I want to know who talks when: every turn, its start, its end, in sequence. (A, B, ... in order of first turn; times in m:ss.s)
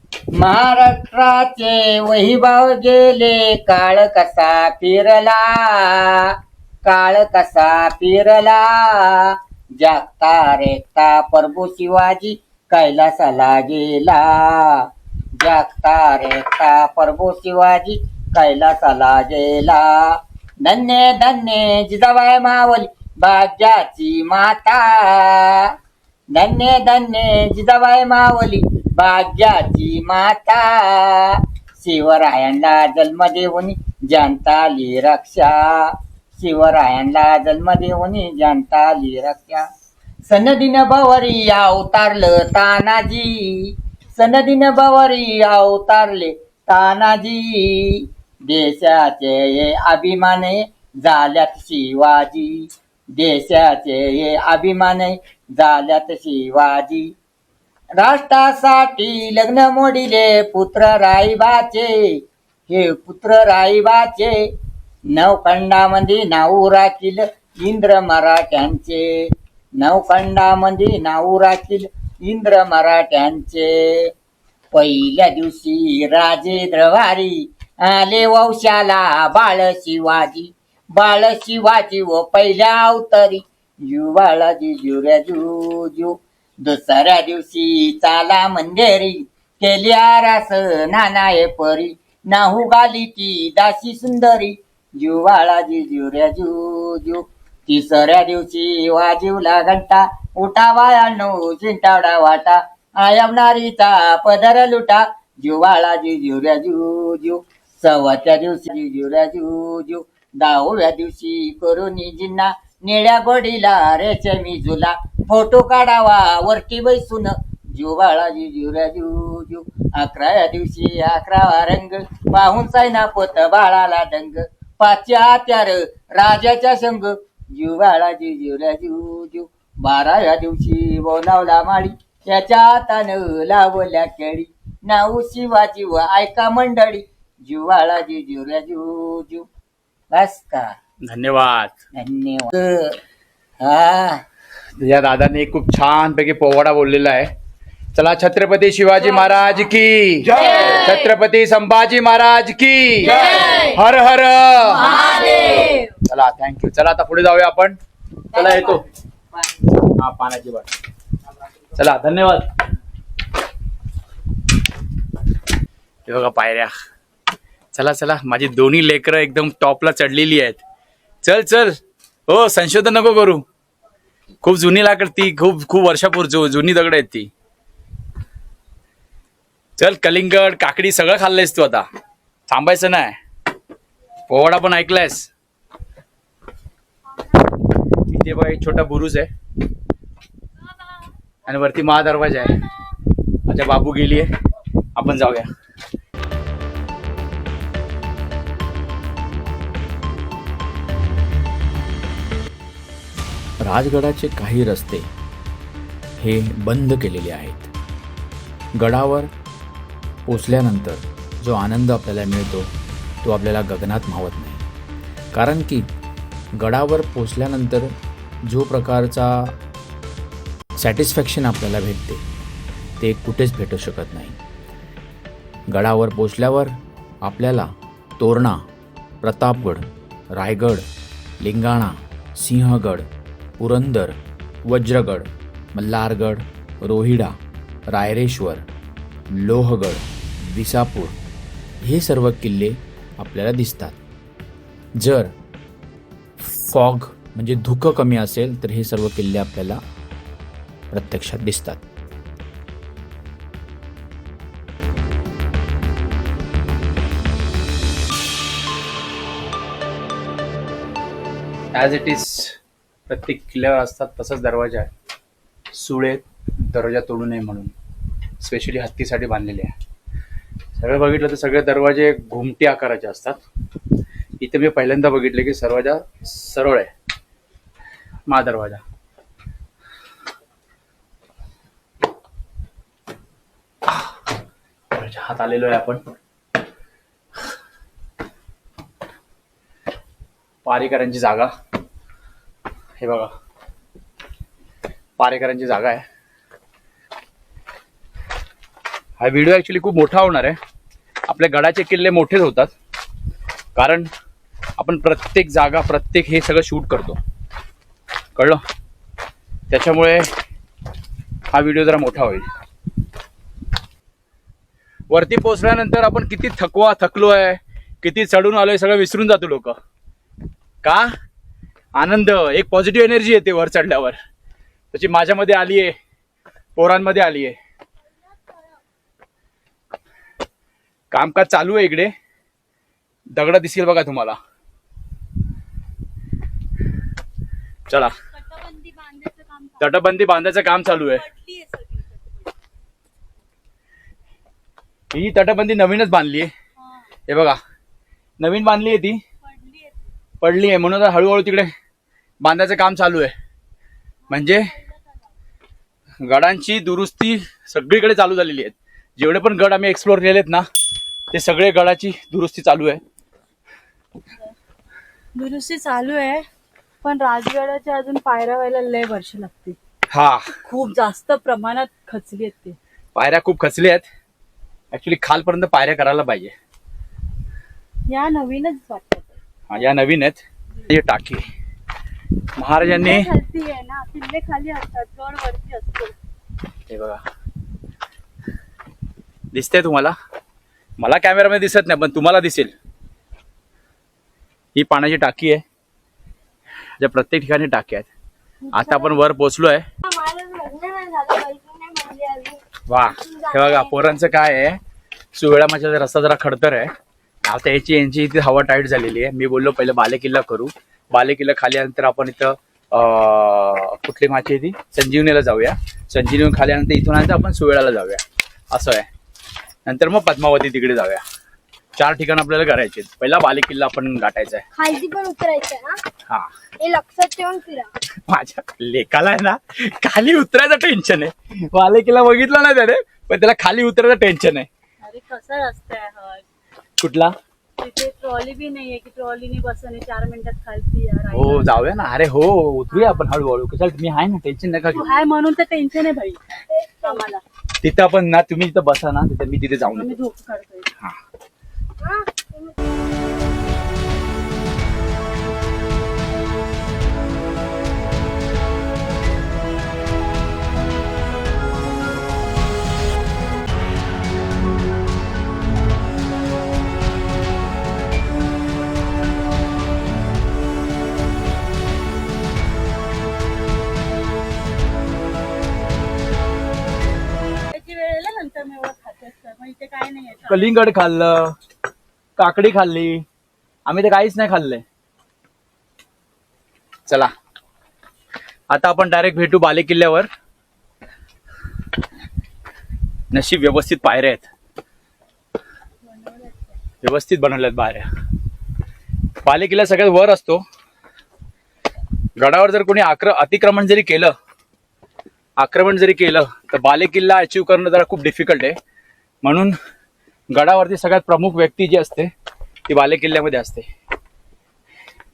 0:00.4-0:06.3 A
0:06.8-0:14.8 A
0:15.4-0:20.0 A
0:20.6-0:25.7 A
0:26.3-0:39.6 A
0:40.3-0:57.1 A
0:58.0-1:02.1 A
1:02.7-1:04.4 A
1:05.1-1:09.1 A
1:09.8-1:14.1 A
1:14.7-2:19.4 A
2:20.1-2:20.7 A
2:21.0-2:21.8 B
2:22.0-2:23.0 A
2:23.6-2:24.2 A
2:24.8-2:27.3 B
2:27.9-2:37.8 B
2:35.0-2:35.8 C
2:38.3-2:38.8 B
2:40.0-2:40.7 B
2:41.8-2:42.5 B
2:46.0-2:46.7 B
2:47.7-2:50.6 B
2:51.2-2:53.4 B
2:54.4-2:57.3 B
2:59.8-3:01.8 B
3:02.5-3:03.2 B
3:04.3-3:05.3 B
3:08.1-3:09.3 B
3:11.4-3:12.6 B
3:13.5-3:14.3 B
3:15.0-3:15.5 B
3:23.6-3:25.1 D
3:26.2-3:27.7 D
3:28.8-3:29.3 D
3:30.2-3:32.7 D
3:33.2-3:34.6 D
3:35.3-3:35.9 D
3:36.6-3:37.9 D
3:38.4-3:39.6 D
3:40.8-3:42.2 D
3:43.0-3:44.4 D
3:45.7-3:48.6 D
3:49.2-3:50.8 D
3:51.4-3:53.1 D
3:53.6-3:57.4 D
3:57.9-3:58.6 D
3:59.3-4:01.2 D
4:01.8-4:04.0 D
4:05.0-4:05.3 D
4:06.6-4:09.8 D
4:10.9-4:11.8 D
4:21.7-4:22.6 B
4:23.1-4:24.9 B
4:25.7-4:27.7 B
4:28.4-4:29.7 B
4:30.8-4:33.4 B
4:34.4-4:36.9 B
4:38.3-4:38.8 B
4:44.9-4:46.0 B
4:50.6-4:51.5 B
4:53.0-4:53.3 B
4:55.2-4:56.0 B
4:59.2-5:00.6 B
5:01.3-5:02.7 B
5:03.7-5:04.1 B
5:04.8-5:07.2 B
5:08.4-5:08.6 B
5:09.7-5:10.3 B
5:11.5-5:12.5 B
5:15.1-5:19.8 B
5:20.8-5:21.1 B
5:21.9-5:24.2 B
5:24.9-5:26.0 B
5:26.8-5:27.6 B
5:31.1-5:32.1 B
5:33.3-5:34.4 B
5:37.9-5:38.1 B
5:38.3-5:40.2 C
5:39.8-5:41.2 B
5:40.9-5:42.5 C
5:45.1-5:46.5 B
5:46.8-5:47.1 C
5:47.3-5:47.6 B
5:48.4-5:49.2 B
5:49.4-5:50.1 C
5:50.4-5:51.7 B
5:52.4-5:53.3 B
5:54.3-5:55.2 C
5:54.3-5:54.7 B
5:56.2-6:00.6 B
6:01.3-6:03.0 B
6:05.3-6:06.5 C
6:07.0-6:09.8 C
6:10.1-6:10.5 B
6:10.6-6:12.8 C
6:13.1-6:14.0 B
6:14.9-6:16.5 B
6:18.1-6:19.4 C
6:19.7-6:21.5 B
6:22.6-6:23.3 B
6:22.8-6:26.1 C
6:26.9-6:27.2 B
6:29.5-6:30.1 B
6:31.0-6:32.7 B
6:34.7-6:35.6 B
6:37.0-6:38.1 B
6:38.7-6:39.1 E
6:38.7-6:39.8 B
6:40.0-6:42.6 E
6:42.9-6:44.8 B
6:43.2-6:44.2 E
6:45.3-6:46.9 B
6:47.4-6:59.1 B
6:59.8-7:01.2 B
7:02.0-7:04.6 B
7:04.8-7:06.0 E
7:06.8-7:07.9 E
7:08.3-7:14.7 B
7:15.0-7:16.4 C
7:17.0-7:17.3 B
7:17.8-7:22.0 C
7:21.3-7:25.1 B
7:22.9-7:23.2 E
7:24.9-7:26.4 C
7:25.0-7:25.2 E
7:26.7-7:27.2 E
7:27.0-7:27.4 C
7:27.8-7:30.2 B
7:29.9-7:30.9 C
7:32.0-7:32.8 E
7:57.7-8:00.8 C
8:00.5-8:01.6 B
8:02.4-8:03.2 B
8:03.8-8:04.8 B
8:08.7-8:10.3 B
8:13.3-8:14.4 B
8:16.0-8:16.7 C
8:17.0-8:18.1 B
8:19.4-8:20.6 B
8:22.4-8:24.3 B
8:25.6-8:28.8 B
8:29.4-8:29.7 B
8:30.5-8:32.3 B
8:32.9-8:33.9 B